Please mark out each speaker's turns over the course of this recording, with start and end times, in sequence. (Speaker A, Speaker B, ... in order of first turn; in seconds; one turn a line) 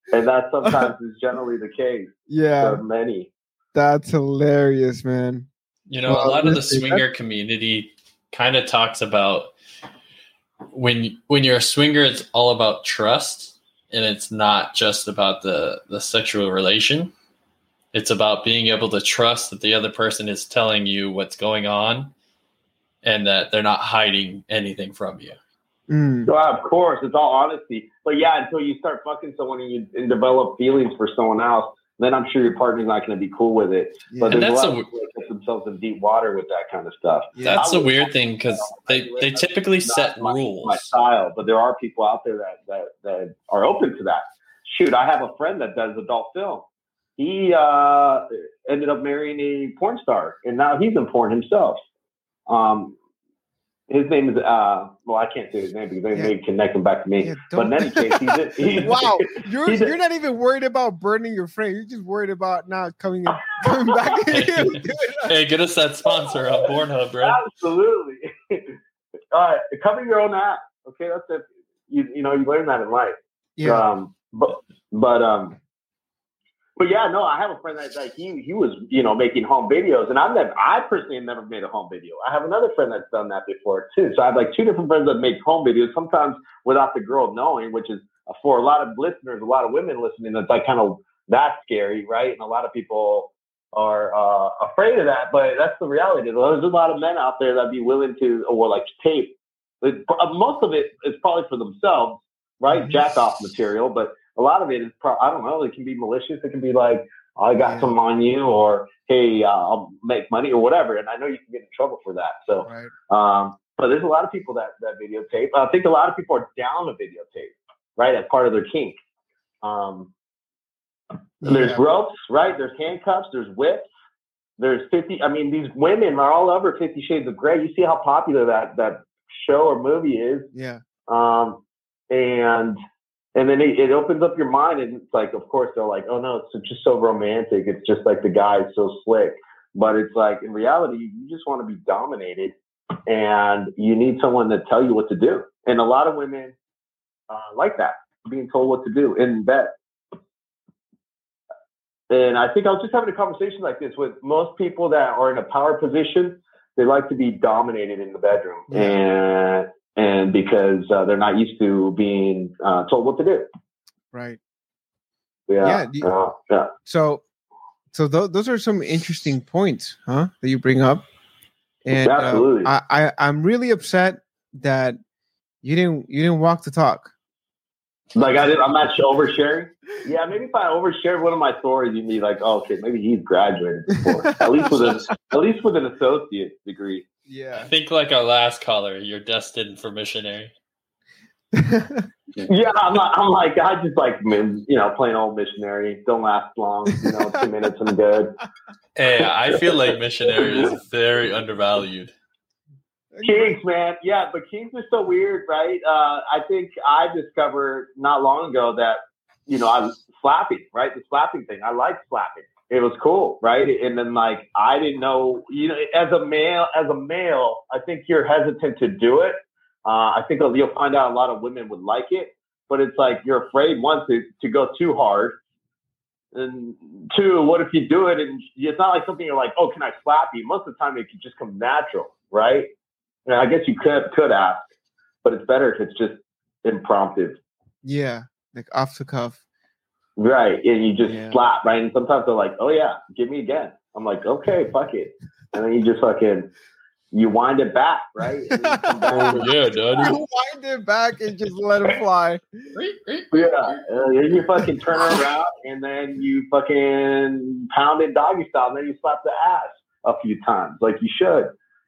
Speaker A: 0.1-3.3
Speaker B: 0.6-0.9
Speaker B: 2.3-2.8
Speaker B: 3.7-5.5
Speaker C: 5.9-9.5
Speaker B: 6.0-7.0
Speaker C: 10.7-17.1
Speaker C: 17.9-22.1
Speaker C: 23.0-25.4
Speaker B: 25.9-26.3
Speaker A: 26.2-46.6
Speaker B: 34.1-34.4
Speaker C: 34.3-34.9
Speaker C: 37.4-40.9
Speaker A: 47.2-51.8
Speaker A: 52.5-53.0
Speaker A: 53.9-59.9
Speaker B: 57.2-65.3
Speaker A: 63.6-64.2
Speaker C: 64.3-67.4
Speaker A: 66.2-66.7
Speaker A: 67.2-68.7
Speaker A: 69.3-75.6
Speaker B: 73.6-73.8
Speaker A: 76.8-118.9
Speaker B: 102.7-103.0
Speaker B: 107.6-107.9
Speaker B: 112.6-112.9
Speaker A: 119.6-120.1
Speaker B: 121.4-121.8
Speaker A: 121.4-123.8
Speaker A: 124.6-130.5
Speaker B: 130.5-130.8
Speaker A: 131.1-132.8
Speaker A: 133.3-142.5
Speaker A: 143.1-146.5
Speaker A: 147.3-149.7
Speaker A: 152.1-163.4
Speaker B: 158.7-159.0
Speaker B: 164.1-164.4
Speaker A: 165.5-166.7
Speaker B: 165.6-166.1
Speaker B: 166.8-167.2
Speaker B: 167.9-171.0
Speaker B: 171.8-175.0
Speaker A: 171.9-172.7
Speaker B: 175.6-177.1
Speaker A: 178.1-187.0
Speaker B: 184.6-184.9
Speaker B: 187.3-187.7
Speaker C: 187.5-190.5
Speaker B: 191.5-192.1
Speaker A: 192.4-198.3
Speaker B: 196.9-197.4
Speaker C: 198.9-202.1
Speaker A: 200.4-200.7
Speaker B: 203.1-203.6
Speaker A: 203.2-225.3
Speaker A: 226.3-232.7
Speaker A: 233.2-234.7
Speaker A: 235.2-237.4
Speaker B: 237.8-239.4
Speaker A: 240.2-246.5
Speaker B: 241.0-241.4
Speaker A: 247.1-250.1
Speaker B: 248.6-249.4
Speaker C: 249.1-250.1
Speaker B: 250.0-252.6
Speaker C: 252.7-253.8
Speaker A: 253.3-261.5